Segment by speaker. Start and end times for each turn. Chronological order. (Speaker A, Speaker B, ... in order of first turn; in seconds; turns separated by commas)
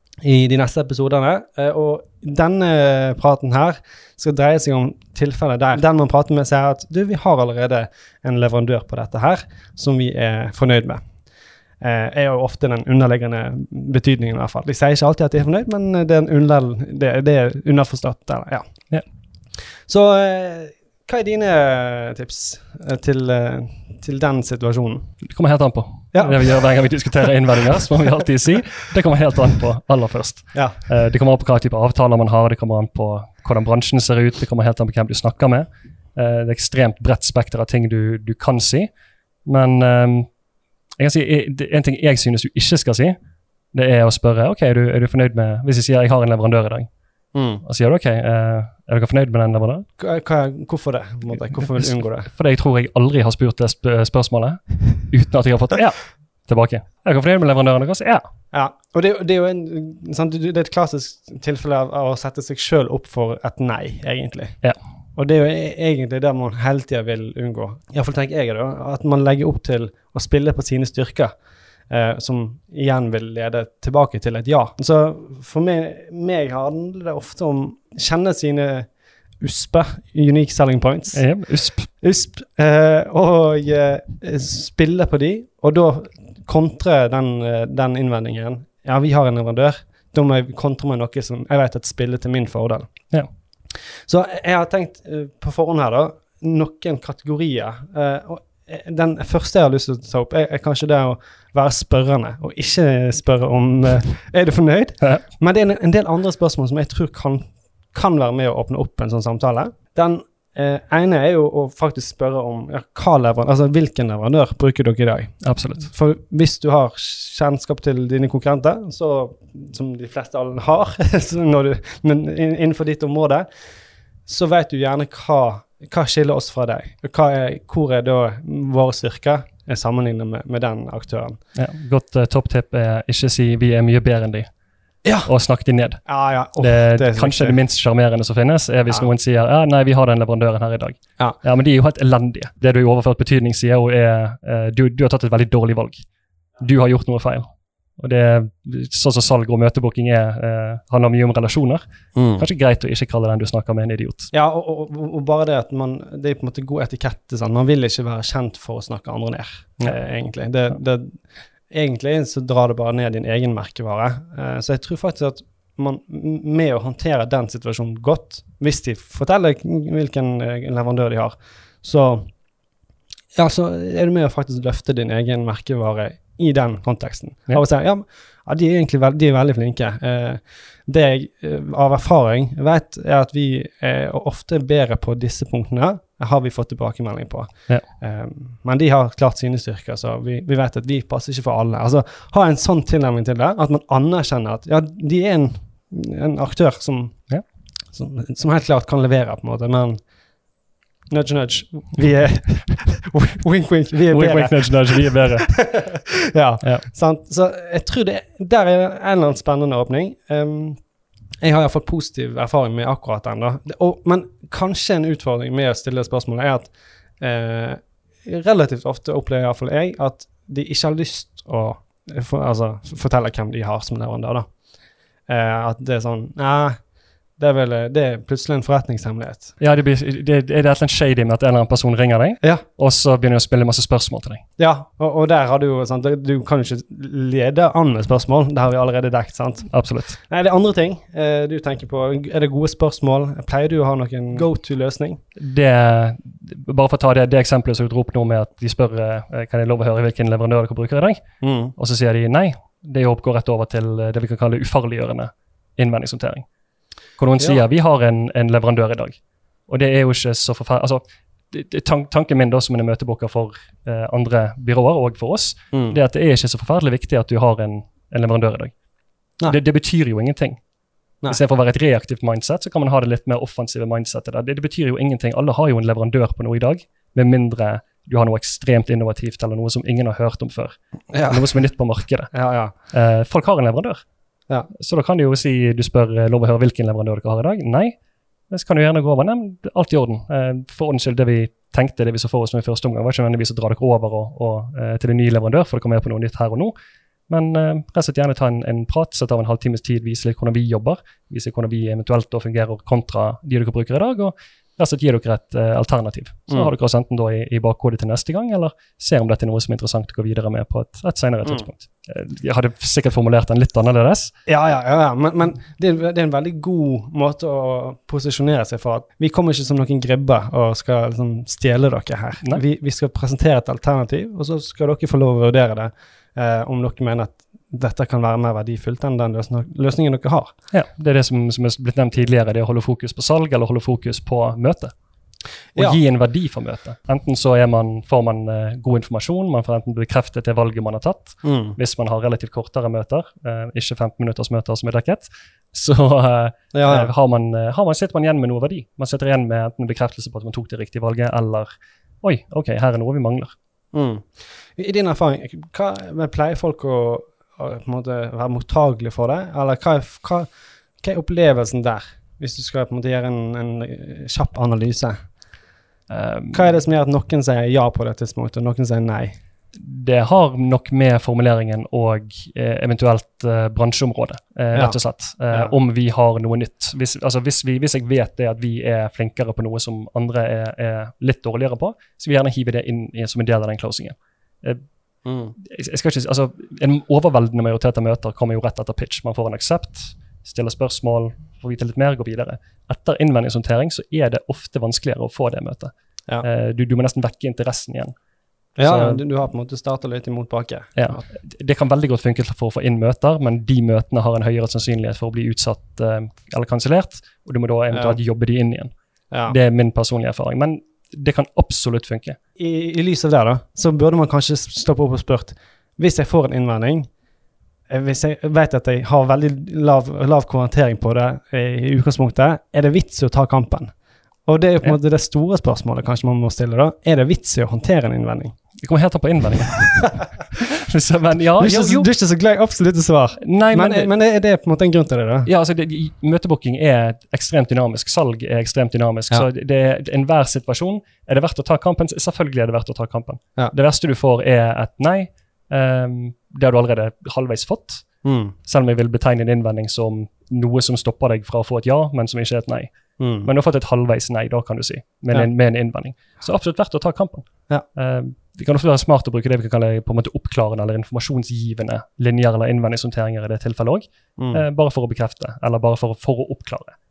Speaker A: 0.2-11.0, Speaker A: 11.8-18.6, Speaker A: 19.9-25.1, Speaker B: 25.3-38.9, Speaker A: 26.1-26.4, Speaker A: 30.5-30.8, Speaker B: 39.5-40.3, Speaker B: 41.0-43.1, Speaker B: 43.7-46.9, Speaker A: 47.3-47.6, Speaker B: 47.6-49.9, Speaker A: 50.0-52.3, Speaker B: 51.6-58.2, Speaker A: 58.5-64.6, Speaker A: 65.2-71.3, Speaker A: 71.9-92.9, Speaker B: 81.1-81.9, Speaker A: 94.1-123.5, Speaker B: 115.4-115.9, Speaker A: 124.2-131.4, Speaker B: 131.5-134.5, Speaker A: 135.0-135.3, Speaker B: 135.2-136.0, Speaker A: 136.0-137.6, Speaker B: 136.6-146.0, Speaker B: 146.6-147.5, Speaker B: 148.0-154.3, Speaker A: 152.1-152.4, Speaker A: 154.3-172.3, Speaker A: 173.3-197.3, Speaker A: 197.9-200.0, Speaker A: 201.1-210.8, Speaker B: 204.1-206.0, Speaker A: 211.4-224.5, Speaker A: 225.3-226.8, Speaker A: 227.4-229.6, Speaker B: 229.6-234.4, Speaker A: 234.6-245.2, Speaker B: 239.7-240.2, Speaker B: 245.4-251.2, Speaker A: 251.4-251.7, Speaker B: 251.8-256.4, Speaker B: 257.2-268.7, Speaker A: 257.4-257.6, Speaker A: 265.7-266.0, Speaker B: 269.5-270.6, Speaker B: 271.3-282.3, Speaker A: 281.1-281.6, Speaker A: 282.3-282.8, Speaker B: 282.9-284.0, Speaker B: 284.7-287.9, Speaker B: 288.5-296.7, Speaker B: 297.3-314.3, Speaker A: 314.4-330.5, Speaker B: 330.7-334.9, Speaker A: 335.7-336.0, Speaker B: 335.8-351.7, Speaker A: 341.4-341.8, Speaker A: 346.7-347.1, Speaker B: 352.2-353.5, Speaker A: 353.9-365.2, Speaker B: 366.1-366.7, Speaker A: 366.5-369.4, Speaker B: 369.7-384.8, Speaker A: 374.7-375.0, Speaker A: 385.2-385.5, Speaker B: 385.6-398.1, Speaker A: 398.8-401.2, Speaker B: 398.8-399.2, Speaker B: 400.9-408.9, Speaker A: 407.9-408.2, Speaker A: 409.3-409.6, Speaker B: 409.4-412.4, Speaker A: 412.6-417.1, Speaker A: 417.9-428.5, Speaker B: 428.8-432.1, Speaker A: 431.6-435.5, Speaker B: 433.4-434.1, Speaker B: 435.4-448.1, Speaker A: 448.2-448.5, Speaker B: 448.6-466.9, Speaker A: 453.2-453.5, Speaker A: 464.4-464.6